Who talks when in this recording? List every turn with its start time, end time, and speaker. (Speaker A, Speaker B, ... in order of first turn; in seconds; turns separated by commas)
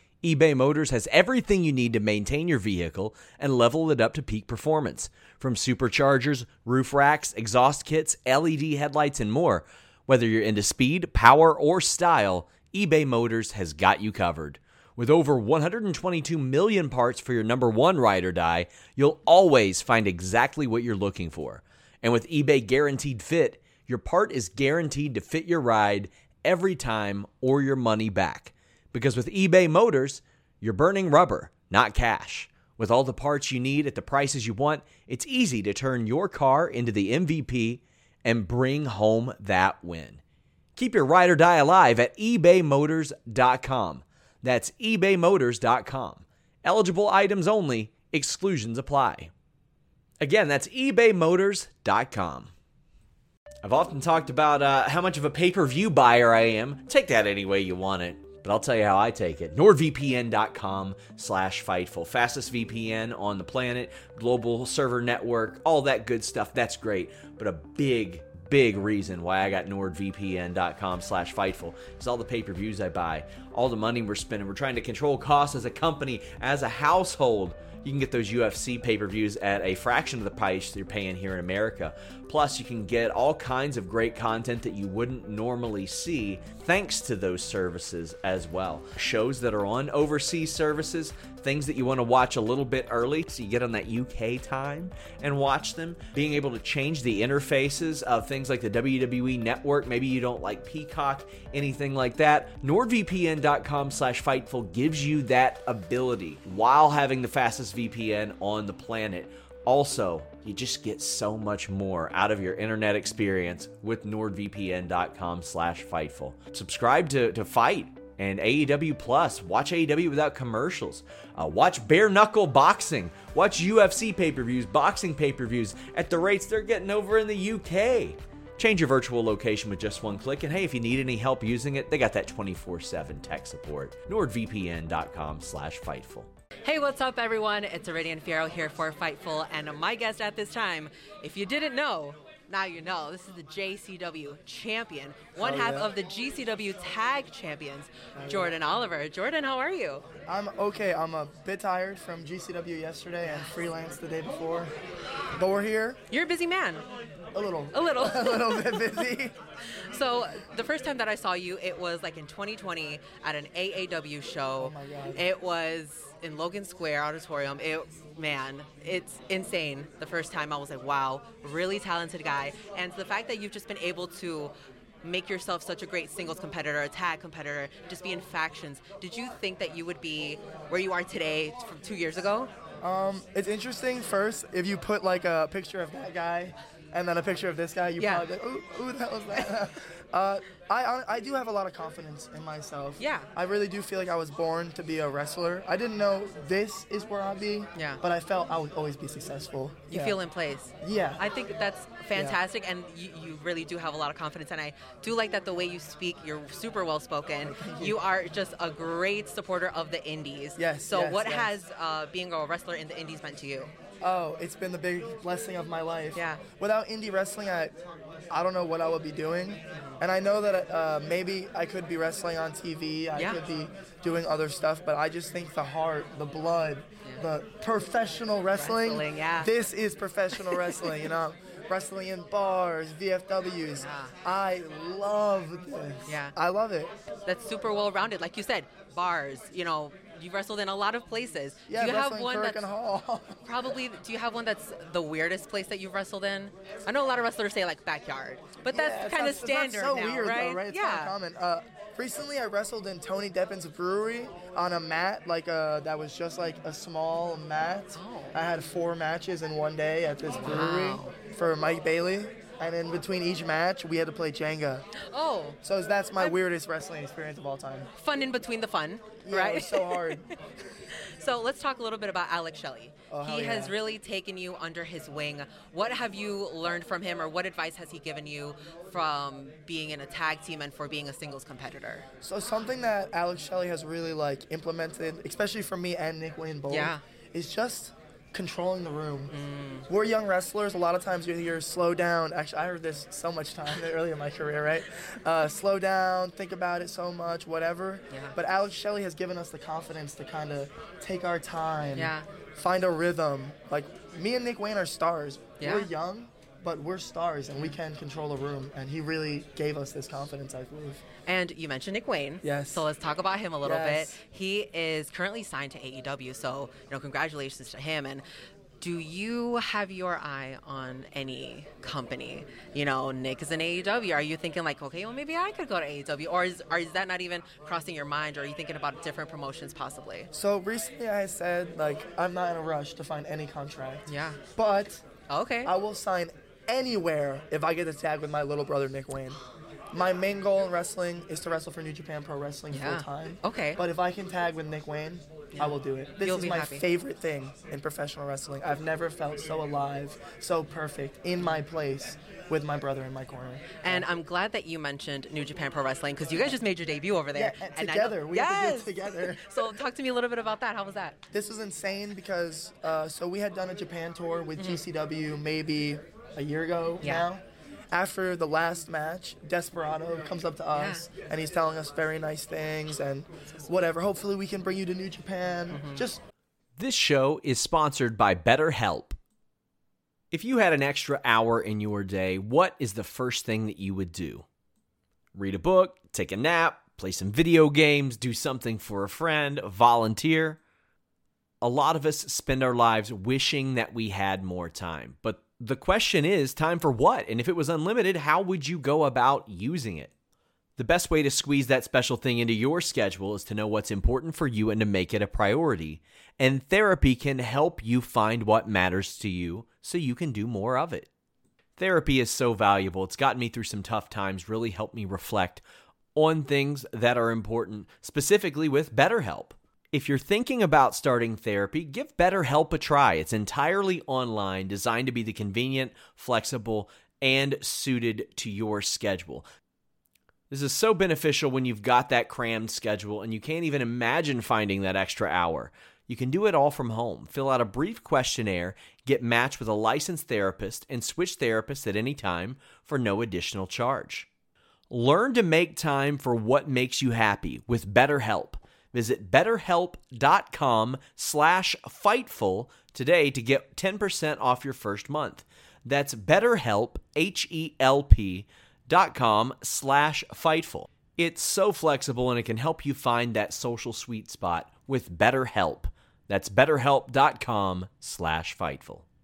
Speaker A: 0.2-40.2, Speaker A: 40.8-49.3, Speaker A: 50.2-52.5, Speaker A: 53.6-136.3, Speaker B: 136.6-150.0, Speaker C: 145.4-145.9, Speaker C: 148.1-148.6, Speaker C: 150.2-154.7, Speaker B: 153.2-153.6, Speaker C: 155.3-156.0, Speaker B: 156.1-156.8, Speaker C: 157.3-159.3, Speaker B: 157.7-159.0, Speaker B: 159.9-182.5, Speaker C: 164.6-165.2, Speaker C: 182.8-200.2, Speaker B: 188.0-188.3, Speaker B: 193.0-193.3, Speaker B: 197.7-198.0, Speaker B: 199.9-213.7, Speaker C: 200.8-201.2, Speaker C: 202.1-202.4, Speaker C: 207.4-208.0, Speaker C: 210.6-211.5, Speaker C: 214.0-217.7, Speaker B: 216.1-216.4, Speaker C: 218.3-236.9, Speaker B: 223.1-223.4, Speaker B: 228.5-229.5, Speaker B: 230.3-231.1, Speaker B: 233.8-234.1, Speaker B: 236.1-236.3, Speaker B: 237.2-242.6, Speaker C: 241.7-243.8, Speaker B: 243.4-251.1, Speaker C: 248.6-264.9, Speaker B: 257.9-258.3, Speaker B: 260.2-261.1, Speaker B: 265.1-265.6, Speaker C: 265.6-267.9, Speaker B: 268.0-270.3, Speaker C: 269.2-270.3, Speaker B: 271.1-282.1, Speaker C: 273.1-273.7, Speaker C: 282.2-289.3, Speaker B: 286.7-287.0, Speaker B: 289.3-289.8, Speaker C: 289.9-311.0, Speaker B: 301.9-302.2, Speaker B: 305.6-305.9, Speaker B: 311.2-318.2, Speaker C: 312.4-312.9, Speaker C: 313.6-314.2, Speaker B: 318.8-330.3, Speaker C: 330.3-335.0, Speaker B: 334.1-334.4, Speaker B: 335.3-335.7, Speaker C: 335.6-339.4, Speaker C: 339.9-354.1, Speaker B: 342.7-343.8, Speaker B: 345.5-346.8, Speaker B: 353.8-361.2, Speaker C: 357.3-359.9, Speaker C: 361.3-376.2, Speaker B: 364.6-364.8, Speaker B: 367.0-367.3, Speaker B: 370.7-371.0, Speaker B: 375.7-376.0, Speaker A: 376.8-379.2, Speaker A: 380.3-384.4, Speaker A: 385.3-390.6, Speaker A: 391.6-400.1, Speaker A: 400.8-411.1, Speaker A: 411.8-429.4, Speaker A: 430.5-444.3, Speaker A: 444.9-469.0